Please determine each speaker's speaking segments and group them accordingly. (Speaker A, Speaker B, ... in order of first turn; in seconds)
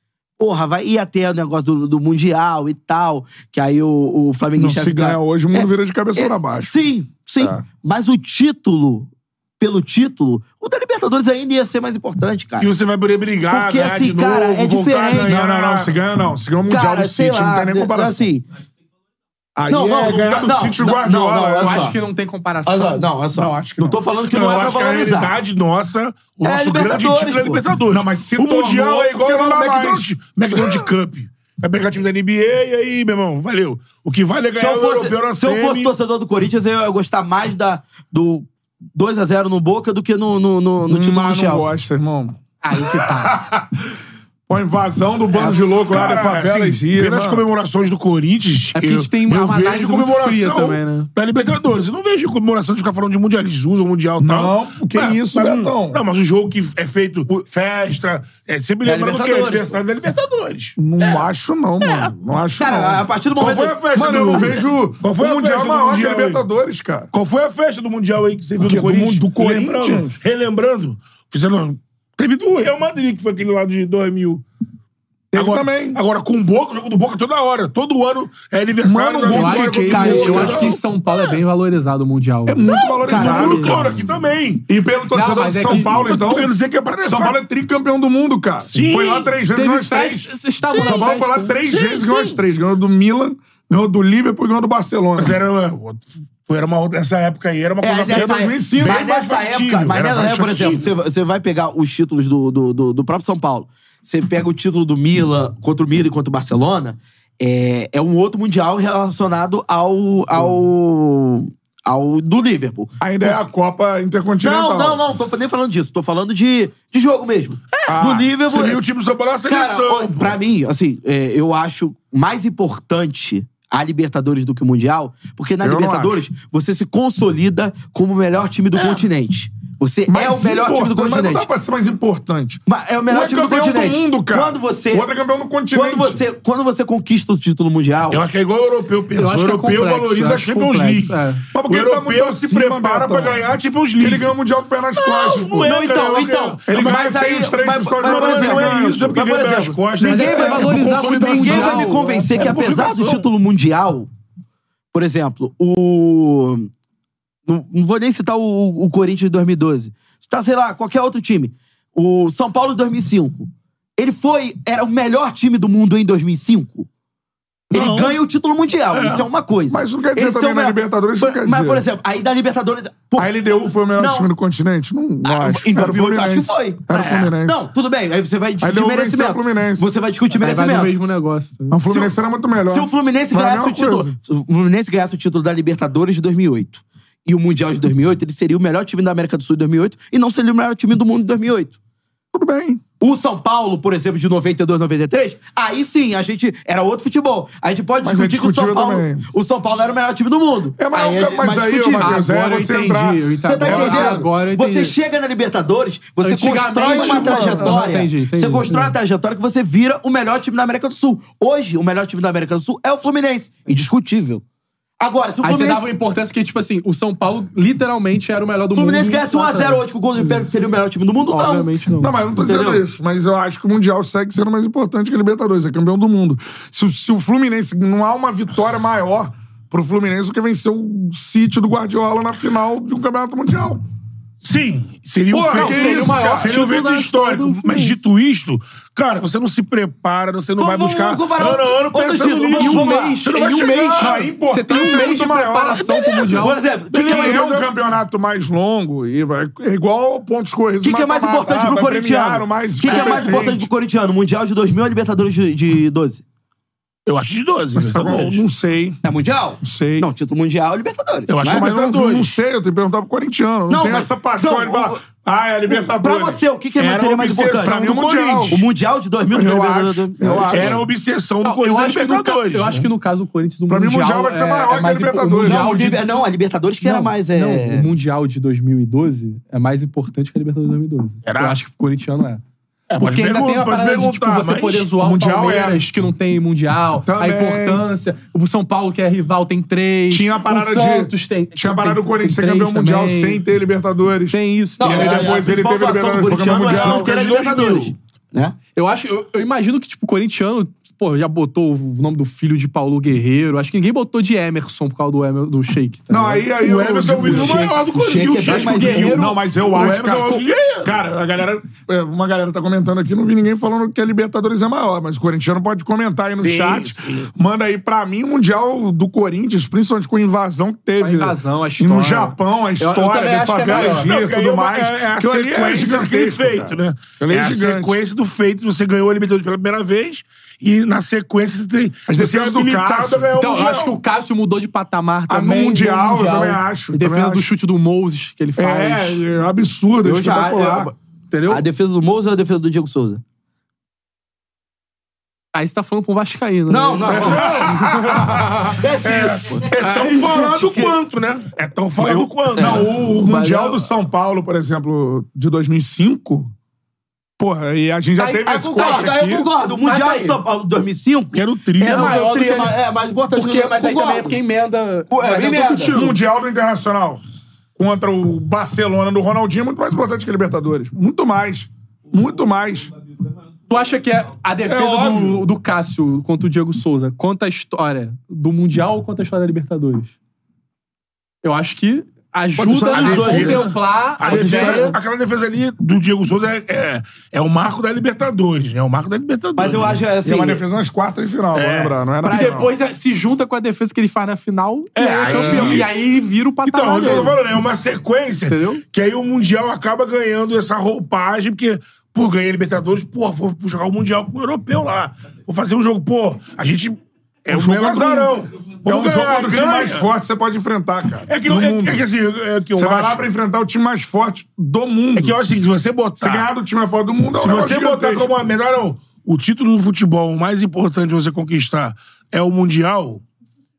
Speaker A: 0.4-12.7, 13.5-15.4, 16.7-18.4, 19.7-22.0, 22.7-25.3, 26.4-27.6, 34.6-41.7, 58.9-59.8, 62.6-64.6, 79.4-80.7, 83.0-83.9, 97.8-113.4, 114.4-118.8, 119.5-131.5, 132.7-135.1, 135.7-138.2, 145.6-150.7, 151.3-154.1, 154.9-156.7, 157.5-166.9, 167.7-173.3, 174.0-174.3, 175.2-176.9, 177.4-181.0, 181.9-182.2, 182.7-191.8, 193.0-202.2, 203.5-214.4, 215.0-215.9, 218.8-221.7, 222.4-222.8, 240.6-243.2, 246.4-247.5, 250.8-256.2, 259.0-261.7, 263.7-265.0, 265.7-267.7, 268.5-270.8, 275.4-277.9, 294.8-298.6, 307.2-309.3, 340.0-340.9, 341.5-343.2, 346.7-348.0, 348.7-350.6, 352.0-352.9, 358.5-364.4, 365.1-366.1, 382.9-383.7, 384.2-385.0, 389.6-390.6, 392.2-392.7
Speaker B: 4.6-6.7, 7.4-7.6, 15.2-18.3, 19.6-21.9, 23.3-24.0, 27.9-30.9, 40.9-43.7, 44.5-47.5, 54.2-56.0, 60.8-63.0, 63.9-67.1, 68.6-70.2, 75.3-76.0, 78.8-80.8, 82.5-83.9, 84.7-95.4, 98.1-99.0, 113.0-115.0, 117.9-118.3, 125.6-126.2, 130.1-136.2, 141.5-143.5, 144.0-145.7, 146.7-149.2, 169.7-171.8, 173.2-177.7, 178.6-179.9, 181.7-184.2, 192.3-192.8, 198.0-199.3, 200.8-204.3, 206.8-207.8, 222.0-233.8, 235.3-236.6, 243.9-246.0, 246.9-253.7, 257.8-259.0, 259.6-260.1, 261.4-266.4, 267.6-268.6, 269.3-270.9, 273.7-275.7, 285.0-285.8, 287.1-287.9, 290.1-297.1, 306.1-307.8, 308.8-328.0, 332.1-333.3, 335.3-337.5, 338.6-340.9, 347.1-349.6, 352.0-356.5, 357.4-359.5, 365.9-367.2, 367.8-372.9, 374.6-375.5, 382.6-383.6, 390.2-392.7, 395.3-395.8, 407.5-412.0, 412.8-415.4, 416.2-418.3
Speaker C: 12.6-15.9, 24.3-35.9, 45.6-61.3, 61.8-62.1, 63.4-66.4, 67.1-74.4, 75.3-81.4, 82.7-84.7, 85.7-87.4, 88.7-89.3, 90.6-91.1, 91.6-92.4, 95.2-100.9, 118.0-120.4, 128.8-129.1, 138.1-141.2, 141.7-144.3, 145.0-147.1, 148.0-153.2, 167.7-168.2, 168.9-169.3, 176.9-177.3, 234.4-244.3, 245.8-247.7, 257.1-258.4, 261.3-262.4, 266.8-268.6, 270.5-272.9, 281.2-281.6, 282.9-284.9, 296.7-297.9, 306.6-311.0, 316.4-317.3, 323.7-334.0, 347.2-347.7, 349.1-352.9, 361.3-362.2, 382.9-390.0, 391.6-391.9, 395.0-395.9, 396.7-410.1, 411.3-413.2, 415.2-416.5, 417.3-423.2
Speaker D: 21.6-23.1, 42.6-43.4, 48.8-51.1, 79.3-82.7, 85.1-86.1, 89.5-91.5, 139.2-141.4, 150.0-152.3, 180.4-181.8, 202.0-204.9, 206.2-208.9, 215.4-220.4, 221.3-222.2, 235.5-238.1, 242.5-246.6, 252.8-253.4, 271.4-276.0, 276.8-282.4, 283.0-293.4, 294.3-295.4, 298.8-306.5, 308.5-309.4, 321.0-324.1, 333.4-339.2, 341.3-341.6, 345.5-348.8, 349.7-350.9, 353.1-353.8, 358.2-360.4, 361.8-362.8, 363.4-366.1, 373.7-380.1, 381.4-385.0, 392.2-397.4, 398.4-398.8